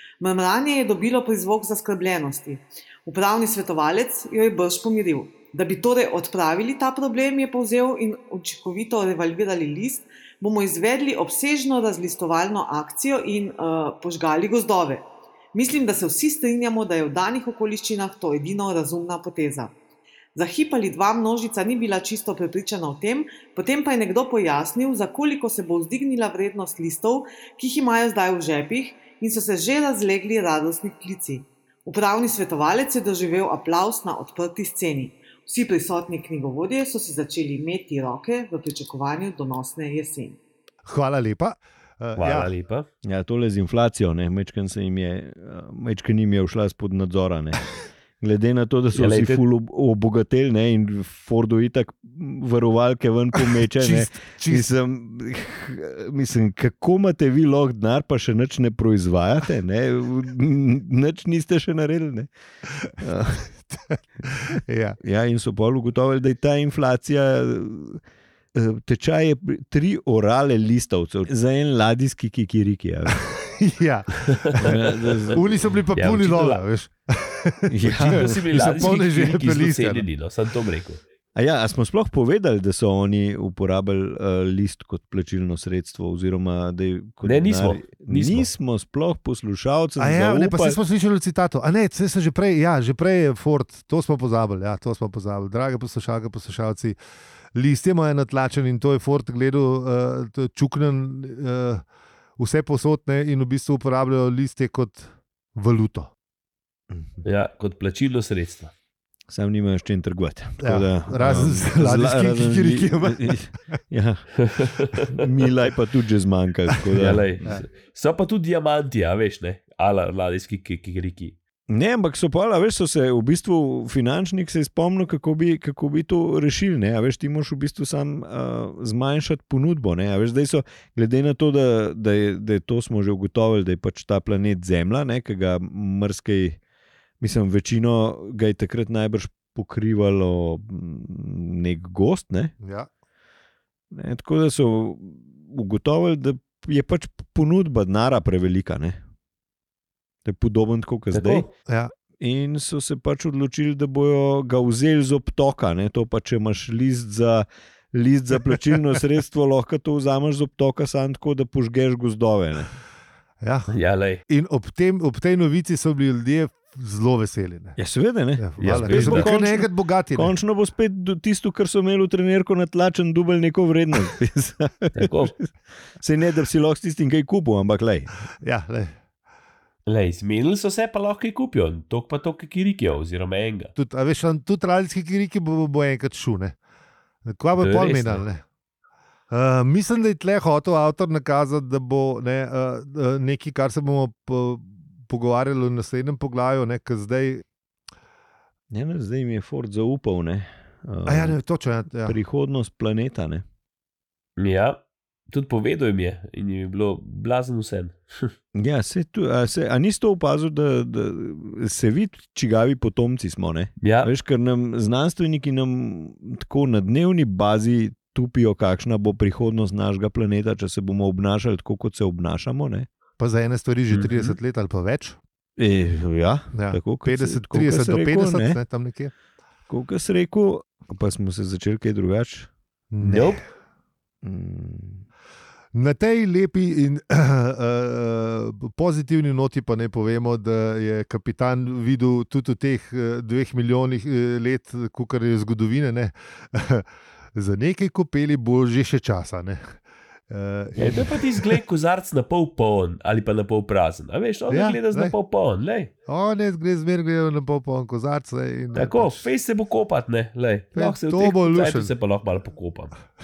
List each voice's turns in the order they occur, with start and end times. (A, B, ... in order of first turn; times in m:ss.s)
0:00.2-0:19.7 A
0:20.4-0:40.4 A
0:40.9-0:42.5 B
0:42.2-0:42.8 C
0:43.0-1:02.3 D
0:48.9-0:49.4 C
0:53.7-0:54.7 B
1:03.0-1:03.5 D
1:03.7-1:05.0 B
1:05.0-1:08.0 D
1:08.5-1:13.2 D
1:13.3-1:14.7 B
1:14.5-1:15.4 C
1:14.6-1:15.7 D
1:15.3-1:20.0 B
1:15.9-1:16.6 C
1:17.7-1:18.3 D
1:17.9-1:21.0 C
1:21.4-1:30.8 D
1:27.2-1:28.5 C
1:30.0-1:37.0 B
1:37.5-1:41.8 B
1:42.4-1:46.1 B
1:46.9-1:47.2 D
1:47.2-1:48.7 C
1:49.3-1:54.3 D
1:50.6-1:53.6 B
1:54.4-1:55.4 C
1:55.1-1:57.5 D
1:56.9-2:01.4 C
2:01.7-2:16.6 D
2:17.2-2:22.5 D
2:22.6-2:22.9 B
2:23.9-2:29.0 D
2:30.2-2:31.5 D
2:31.1-2:31.5 C
2:31.7-2:31.9 B
2:32.2-2:42.7 D
2:43.4-2:43.7 B
2:43.7-2:44.2 C
2:44.3-2:47.8 B
2:47.8-2:58.1 D
2:48.4-2:50.3 B
2:48.6-2:49.3 C
2:55.0-2:55.3 C
2:58.4-2:58.9 B
2:59.8-3:03.7 C
3:03.8-3:06.5 B
3:07.3-3:08.4 B
3:07.6-3:08.2 C
3:09.3-3:17.4 B
3:18.7-3:21.4 D
3:21.0-3:22.2 B
3:22.0-3:23.4 D
3:24.4-3:28.3 C
3:28.5-3:42.9 D
3:33.8-3:34.1 C
3:43.2-3:45.2 B
3:45.6-3:48.6 D
3:46.5-3:49.1 B
3:49.7-3:52.5 D
3:52.9-3:53.4 B
3:53.0-3:53.4 C
3:54.2-3:55.0 D
3:55.7-4:06.8 B
4:07.3-4:09.8 B
4:10.3-4:11.6 B
4:10.8-4:15.9 C
4:14.5-4:15.1 B
4:16.1-4:19.2 B
4:18.7-4:23.0 C
4:20.8-4:21.9 B